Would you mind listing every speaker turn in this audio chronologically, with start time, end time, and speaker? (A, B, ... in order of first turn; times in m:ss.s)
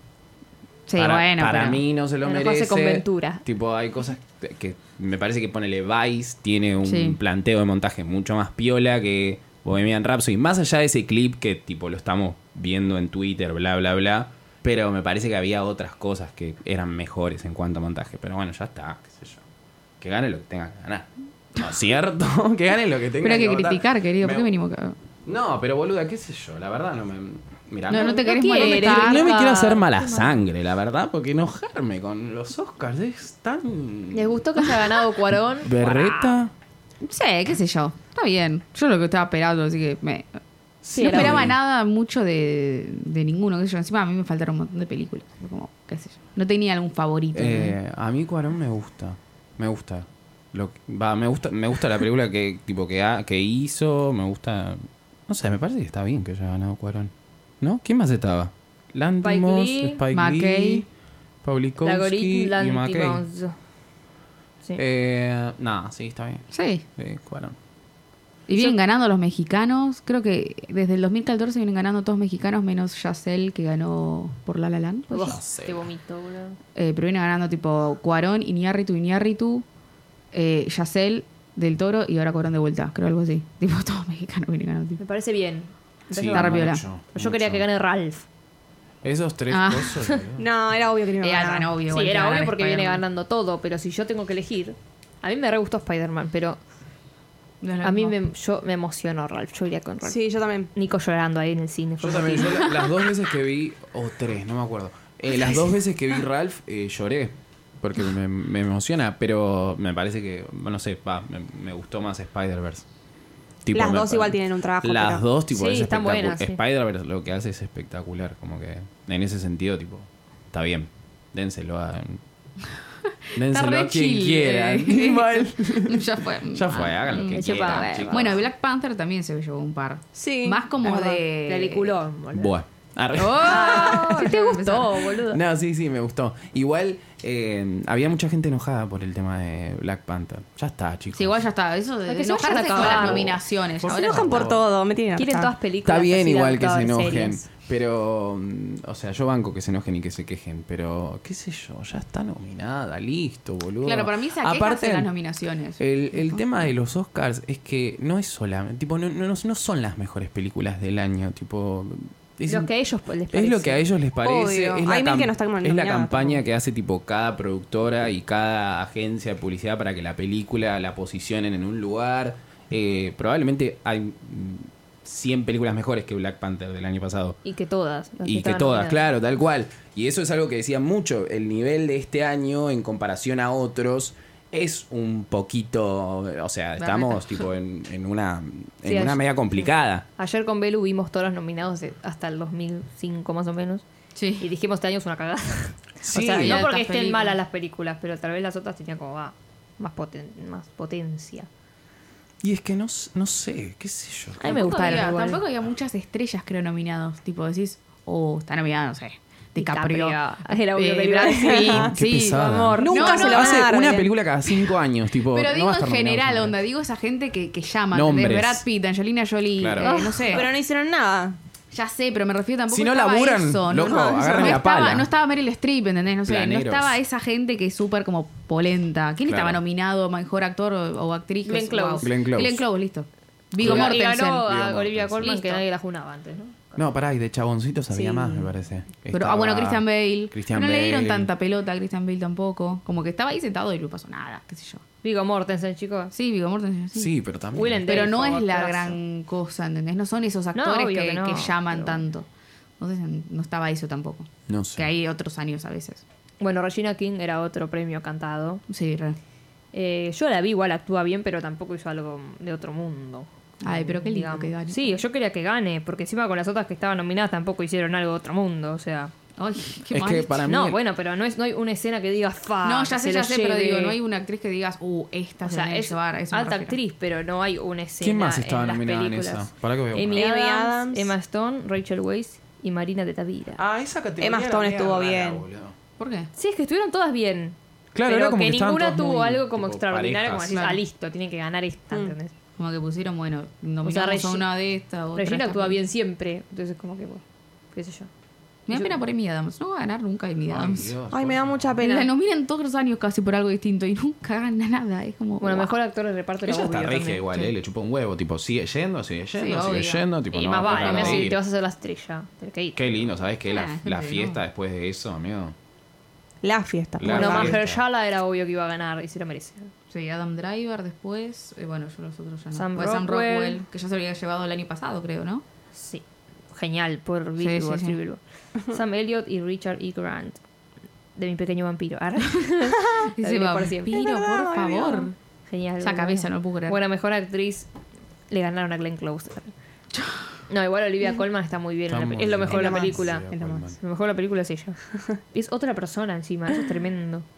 0:00.9-0:01.8 A
0:01.0-0:19.4 B
0:02.2-0:03.4 C
0:06.8-0:07.2 A
0:20.0-0:24.5 B
0:23.2-0:25.0 A
0:25.2-0:34.4 B
0:27.9-0:29.3 A
0:27.9-0:30.4 C
0:34.1-0:36.4 C
0:35.6-0:36.5 B
0:37.0-0:40.4 A
0:40.8-0:41.6 B
0:40.9-0:41.4 C
0:41.0-0:47.8 A
0:47.3-1:00.9 B
0:59.2-1:00.0 C
1:00.1-1:00.8 A
1:01.4-1:03.2 B
1:01.8-1:03.6 C
1:04.8-1:07.6 B
1:06.5-1:06.8 A
1:08.5-1:15.4 A
1:15.1-1:16.6 C
1:15.2-1:15.9 B
1:16.8-1:19.6 A
1:20.3-1:25.0 A
1:25.0-1:28.2 C
1:26.1-1:27.6 B
1:26.3-1:26.8 A
1:29.0-1:30.4 B
1:29.5-1:30.0 A
1:30.4-1:31.7 D
1:31.2-1:33.0 A
1:31.9-1:36.6 C
1:37.6-1:38.2 A
1:37.8-1:40.2 C
1:40.0-1:40.7 D
1:40.7-1:42.7 C
1:42.0-1:52.8 B
1:53.6-2:02.2 B
1:53.7-1:55.2 D
1:55.5-1:56.6 C
2:03.4-2:08.4 B
2:03.4-2:12.0 A
2:07.2-2:08.4 C
2:10.2-2:11.2 D
2:11.4-2:12.6 C
2:12.3-2:14.1 B
2:13.2-2:15.2 A
2:13.4-2:15.4 C
2:15.3-2:21.4 B
2:21.1-2:24.5 A
2:22.1-2:23.4 C
2:22.8-2:24.6 B
2:23.8-2:25.5 D
2:25.2-2:27.4 C
2:25.8-2:35.1 B
2:33.8-2:36.4 A
2:35.8-2:42.7 B
2:42.5-2:43.8 C
2:43.3-2:57.4 B
2:44.2-2:46.4 D
2:57.4-2:59.0 C
2:58.2-3:10.0 B
3:06.8-3:07.4 A
3:08.8-3:13.8 C
3:14.1-3:14.5 A
3:14.4-3:21.5 C
3:16.0-3:16.6 B
3:16.1-3:17.4 A
3:22.4-3:24.6 B
3:24.4-3:25.4 C
3:24.4-3:33.6 A
3:29.6-3:31.9 C
3:31.2-3:31.9 D
3:31.8-3:36.6 B
3:32.5-3:33.6 C
3:32.8-3:34.1 D
3:35.3-3:40.5 A
3:37.9-3:38.6 B
3:39.6-3:40.0 B
3:39.8-3:40.4 C
3:40.2-3:41.4 D
3:41.7-3:54.4 A
3:42.7-3:45.1 B
3:43.8-3:44.6 D
3:46.2-3:47.0 B
3:49.2-3:49.6 B
3:51.4-3:52.1 C
3:52.0-3:52.6 B
3:53.6-3:55.4 B
3:53.6-3:56.8 C
3:55.2-3:55.6 A
3:56.8-4:01.3 B
3:58.0-3:58.4 D
3:59.1-4:04.8 A
4:05.0-4:06.1 C
4:06.1-4:07.1 A
4:06.9-4:08.4 B
4:07.5-4:09.0 C
4:07.9-4:12.3 A
4:10.5-4:12.0 C
4:12.8-4:16.0 A
4:14.5-4:14.9 B
4:16.4-4:18.6 C
4:18.7-4:19.2 A
4:19.7-4:29.1 C
4:23.6-4:25.0 A
4:29.4-4:30.4 A
4:29.9-4:30.8 B
4:30.4-4:34.0 C
4:32.6-4:36.8 A
4:35.4-4:43.6 C
4:38.0-4:40.3 B
4:40.1-4:41.1 D
4:43.6-4:45.8 B
4:44.2-4:45.4 D
4:46.0-4:46.3 A
4:46.3-4:52.3 C
4:47.9-4:50.6 B
4:50.5-4:50.8 A
4:52.6-4:55.8 A
4:53.8-4:54.5 C
4:55.2-4:57.2 C
4:57.7-4:58.1 C
4:58.7-5:00.9 A
4:58.7-4:59.0 C
5:00.5-5:01.8 B
5:01.1-5:02.1 D
5:01.8-5:05.8 A
5:05.4-5:07.5 C
5:06.4-5:11.4 B
5:09.4-5:10.0 A
5:10.3-5:12.9 C
5:10.6-5:11.3 A
5:12.8-5:15.5 B
5:13.5-5:14.4 A
5:16.4-5:17.6 D
5:17.0-5:17.8 B
5:17.0-5:19.7 C
5:19.9-5:25.4 A
5:22.5-5:23.6 C
5:25.7-5:30.4 C
5:27.4-5:28.0 A
5:31.2-5:34.0 C
5:33.1-5:35.1 A
5:33.9-5:35.1 D
5:35.5-5:37.7 C
5:35.8-5:36.8 A
5:38.3-5:39.5 C
5:39.9-5:40.2 A
5:40.5-5:44.8 C
5:41.9-5:43.8 B
5:42.5-5:43.7 D
5:45.3-5:47.2 C